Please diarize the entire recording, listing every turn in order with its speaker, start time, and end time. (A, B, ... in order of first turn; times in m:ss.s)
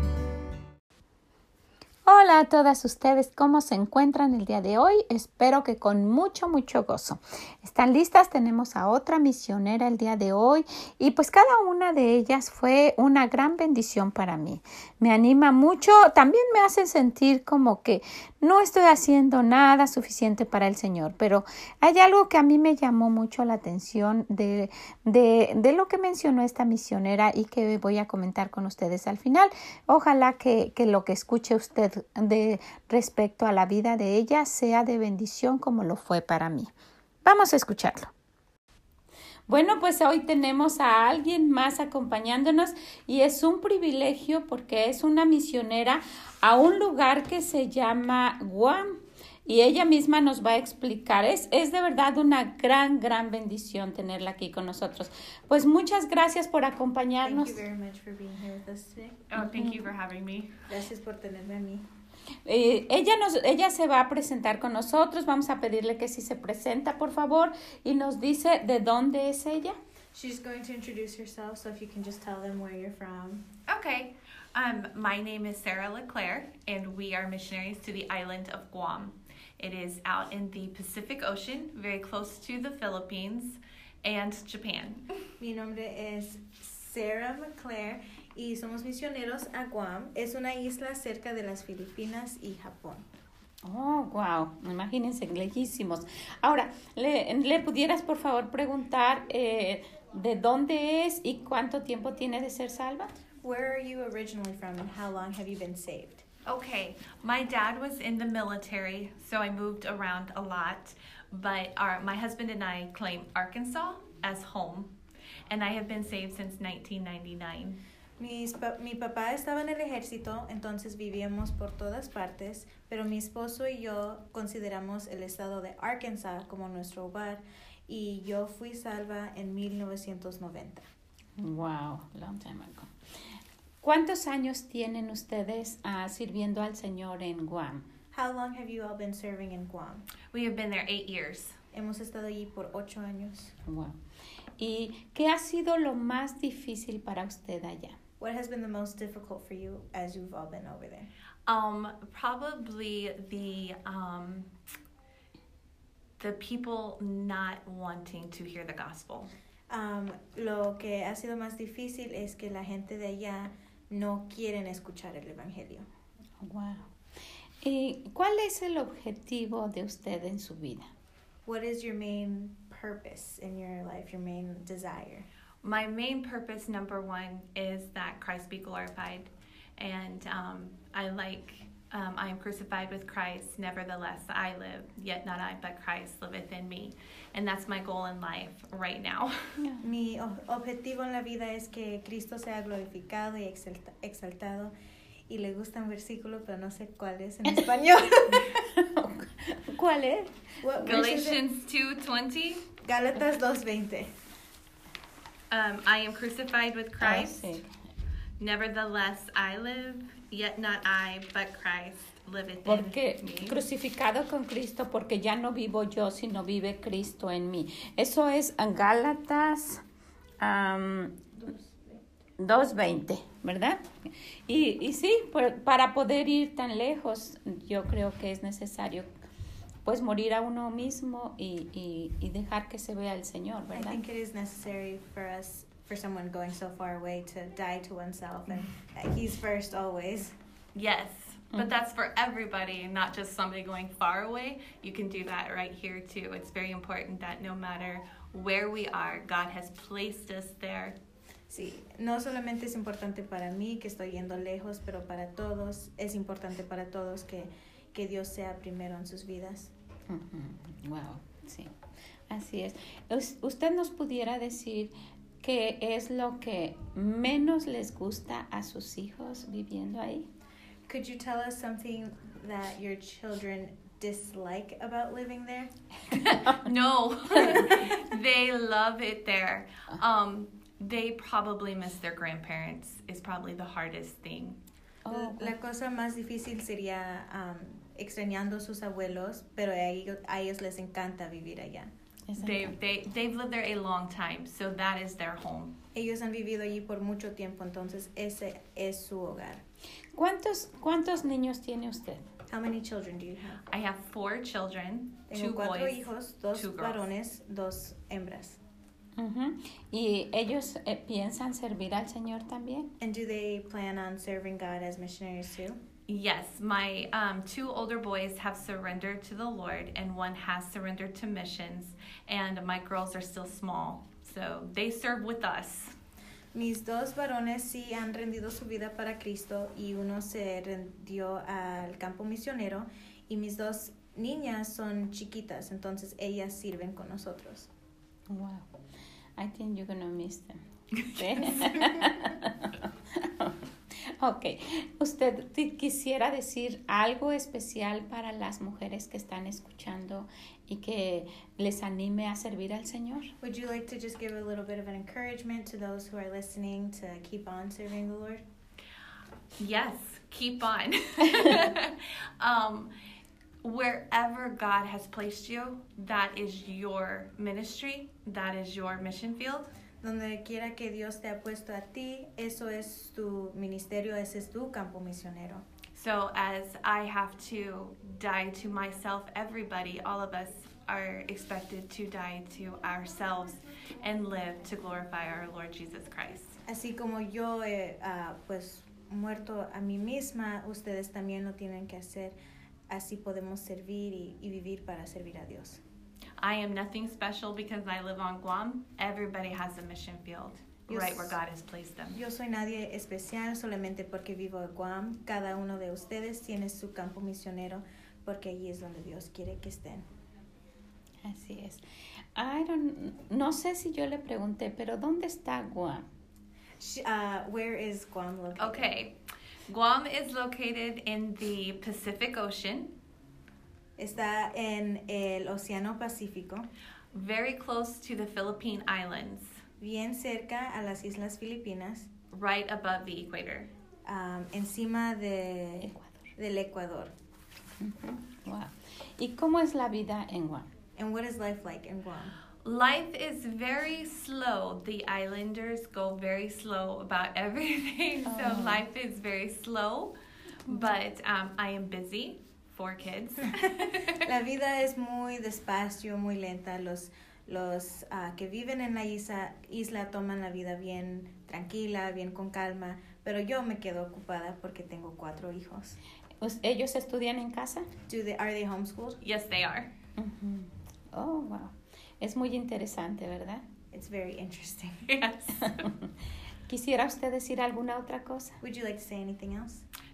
0:02.1-0:36.7 A
0:37.2-0:38.1 A
0:39.5-0:57.6 A
0:57.2-0:59.3 B
0:59.3-1:00.6 C
0:59.4-0:59.8 A
1:00.7-1:01.9 B
1:02.5-1:09.8 A
1:10.1-1:13.4 B
1:13.7-1:25.0 C
1:25.4-1:33.1 B
1:33.6-1:43.2 A
1:43.4-1:46.2 B
1:46.5-1:54.9 C
1:55.5-1:57.8 C
1:58.2-2:10.9 B
2:11.4-2:12.9 A
2:13.8-2:17.8 A
2:18.1-2:20.0 B
2:20.3-2:21.6 C
2:21.7-2:23.6 B
2:23.7-2:24.0 A
2:24.6-2:28.0 A
2:28.2-2:31.1 B
2:31.5-2:34.5 C
2:36.2-2:39.3 C
2:39.7-2:45.9 B
2:46.4-2:46.9 A
2:47.6-2:50.9 A
2:51.5-2:55.3 B
2:55.6-3:09.6 C
3:09.8-3:14.7 B
3:15.3-3:18.5 B
3:18.3-3:20.8 A
3:20.6-3:21.4 B
3:20.8-3:22.7 C
3:22.8-3:24.1 B
3:25.5-3:27.6 C
3:27.0-3:27.7 A
3:28.4-3:33.6 C
3:32.6-3:39.8 A
3:40.4-3:41.4 A
3:42.4-3:43.8 A
3:44.5-3:49.1 A
3:49.9-3:54.0 A
3:53.7-4:00.3 B
4:00.8-4:11.0 C
4:11.5-4:19.7 B
4:20.1-4:21.7 A
4:22.3-4:30.3 A
4:30.9-4:35.7 B
4:36.1-4:44.6 C
4:45.1-4:45.5 A
4:45.1-4:51.9 B
4:52.3-4:52.8 A
4:52.4-4:55.7 C
4:55.9-4:59.6 B
5:00.1-5:02.2 A
5:02.5-5:03.6 B
5:03.7-5:07.0 C
5:05.3-5:08.6 B
5:09.2-5:12.9 A
5:13.0-5:15.8 B
5:16.1-5:26.0 C
5:26.5-5:37.7 B
5:38.3-5:38.7 A
5:39.4-5:40.6 A
5:41.2-5:43.6 A
5:44.2-5:53.3 A
5:53.4-5:58.4 B
5:59.6-6:02.9 C
6:03.6-6:09.7 C
6:10.0-6:15.6 B
6:15.9-6:26.6 C
6:26.7-6:32.4 B
6:32.9-6:35.8 B
6:36.4-6:42.2 C
6:40.9-6:41.4 B
6:42.1-6:50.1 B
6:51.2-6:51.8 A
6:52.4-6:56.1 A
6:56.8-6:58.9 B
6:58.6-7:03.0 C
7:04.0-7:06.7 B
7:07.1-7:09.5 C
7:09.8-7:12.1 B
7:12.3-7:13.7 C
7:14.1-7:17.1 B
7:15.9-7:16.2 A
7:17.8-7:20.7 A
7:21.0-7:22.4 B
7:22.6-7:34.2 C
7:28.3-7:28.9 A
7:34.1-7:46.0 B
7:46.4-7:47.9 A
7:48.1-7:49.2 B
7:49.2-7:49.9 C
7:50.2-7:53.6 A
7:53.9-7:55.0 B
7:55.1-7:55.9 C
7:55.7-7:56.1 A
7:56.7-7:58.6 A
7:58.6-7:59.8 B